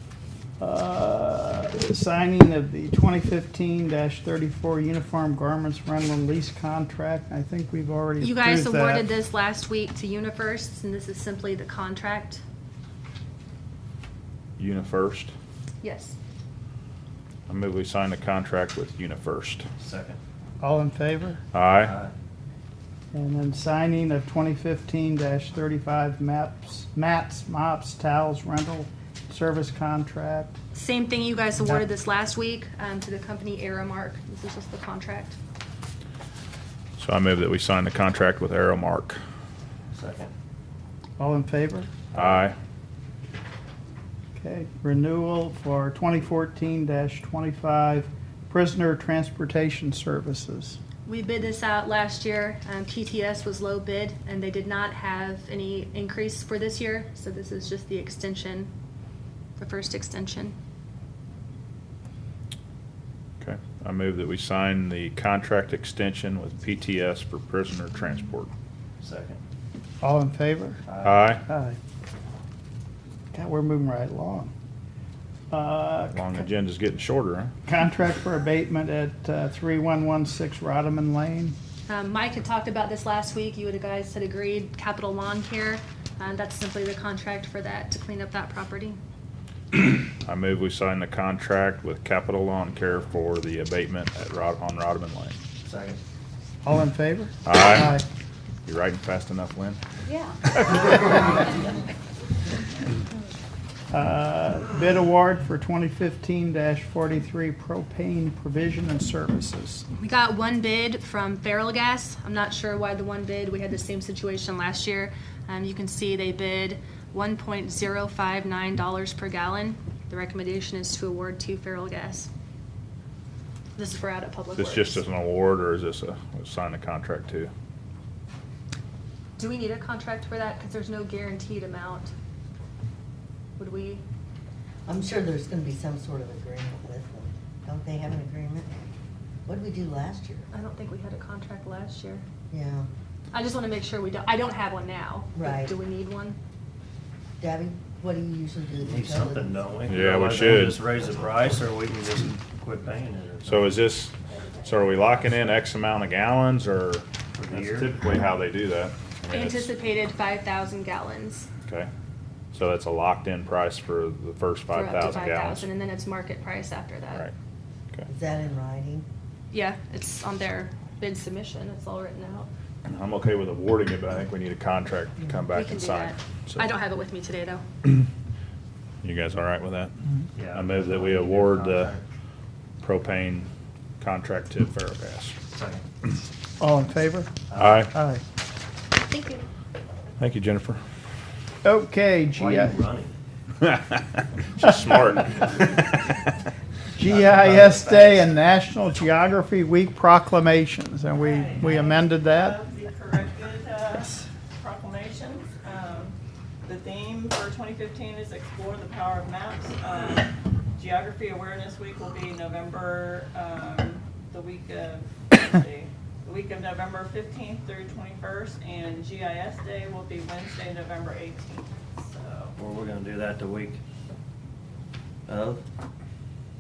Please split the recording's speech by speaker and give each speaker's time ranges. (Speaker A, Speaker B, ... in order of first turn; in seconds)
Speaker A: 0.6-9.1, 20.6-21.4, 23.1-30.6, 41.2-41.9, 44.4-50.8, 70.0-70.8, 71.5-71.8, 73.3-74.5, 75.5-76.4, 77.7-81.6, 96.6-98.0, 103.9-109.9, 186.6-187.3, 187.9-188.2, 191.6-192.7, 197.0-202.6
Speaker B: 8.2-12.4, 15.8-16.2, 30.7-35.4, 51.1-58.7, 59.6-60.5, 81.9-89.0, 110.0-122.3, 123.8-125.0, 129.4-132.1, 133.6-134.0, 140.5-142.2, 143.3-146.4, 159.3-161.5, 164.7-167.3, 169.5-172.5, 175.5-177.6, 189.1-189.4
Speaker C: 14.6-15.3, 17.5-19.7, 21.5-21.9, 37.0-39.2, 42.1-42.6, 63.4-68.5, 71.0-71.4, 76.1-77.5, 89.7-95.4, 97.5-98.0, 98.7-99.8, 124.6-127.5, 149.9-151.1, 153.4-159.7, 162.5-165.7, 172.9-176.7, 179.0-179.9, 180.5-181.9, 182.8-183.5, 184.0-185.4, 187.6-187.9, 190.2-190.8, 193.6-195.8
Speaker D: 19.8-20.2, 21.8-22.1, 39.9-40.3, 69.0-69.4, 70.9-71.3, 95.6-96.0, 148.8-153.8, 157.3-157.9, 180.3-182.0, 185.5-185.8, 192.3-193.1, 197.0-198.3, 222.6-223.8, 225.3-225.6
Speaker E: 134.9-138.8, 139.5-140.5, 142.5-142.9, 145.3-145.7, 147.4-149.7, 168.1-169.1
Speaker F: 201.1-222.5